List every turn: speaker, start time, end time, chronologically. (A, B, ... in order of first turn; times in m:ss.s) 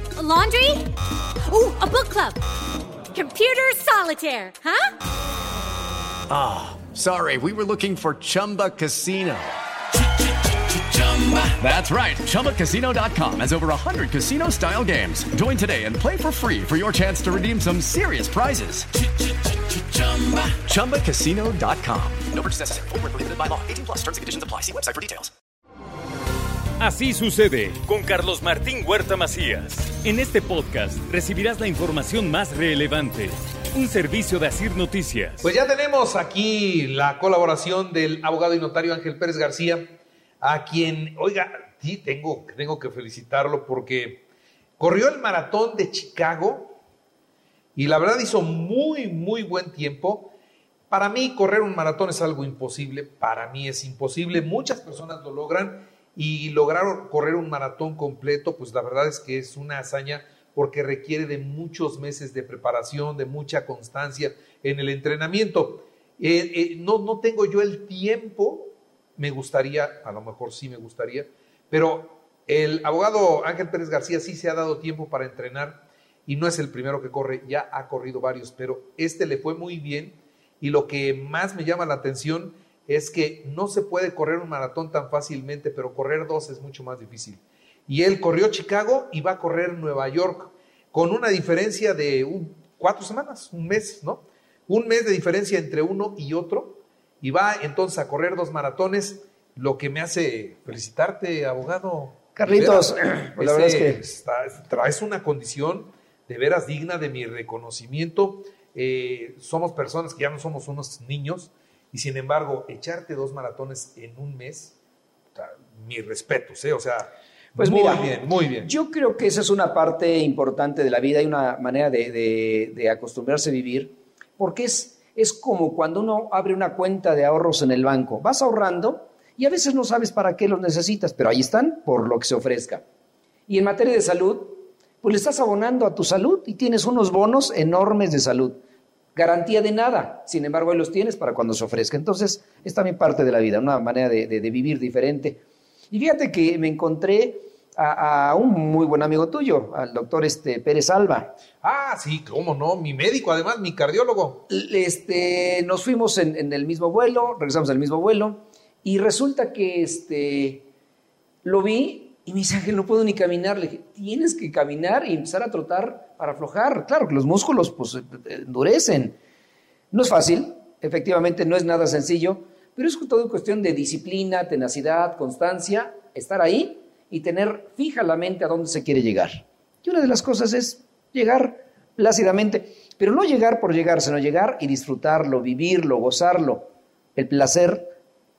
0:00.2-0:00.9 A
0:01.5-0:02.4 A
0:03.1-0:04.9 A
0:06.3-0:09.6 B
0:10.7-0:19.0 B
0:19.7-0:25.3 B
0:26.8-0:35.5 C
0:35.4-0:44.3 D
0:44.8-0:46.8 D
0:47.8-0:50.3 D
0:50.9-1:54.7 D
1:42.4-1:44.0 E
1:55.4-1:58.7 D
1:57.6-2:12.8 E
2:13.5-2:18.6 E
2:19.2-2:31.3 E
2:31.6-2:34.4 D
2:34.5-2:40.7 E
2:41.4-2:49.2 E
2:49.9-3:08.0 E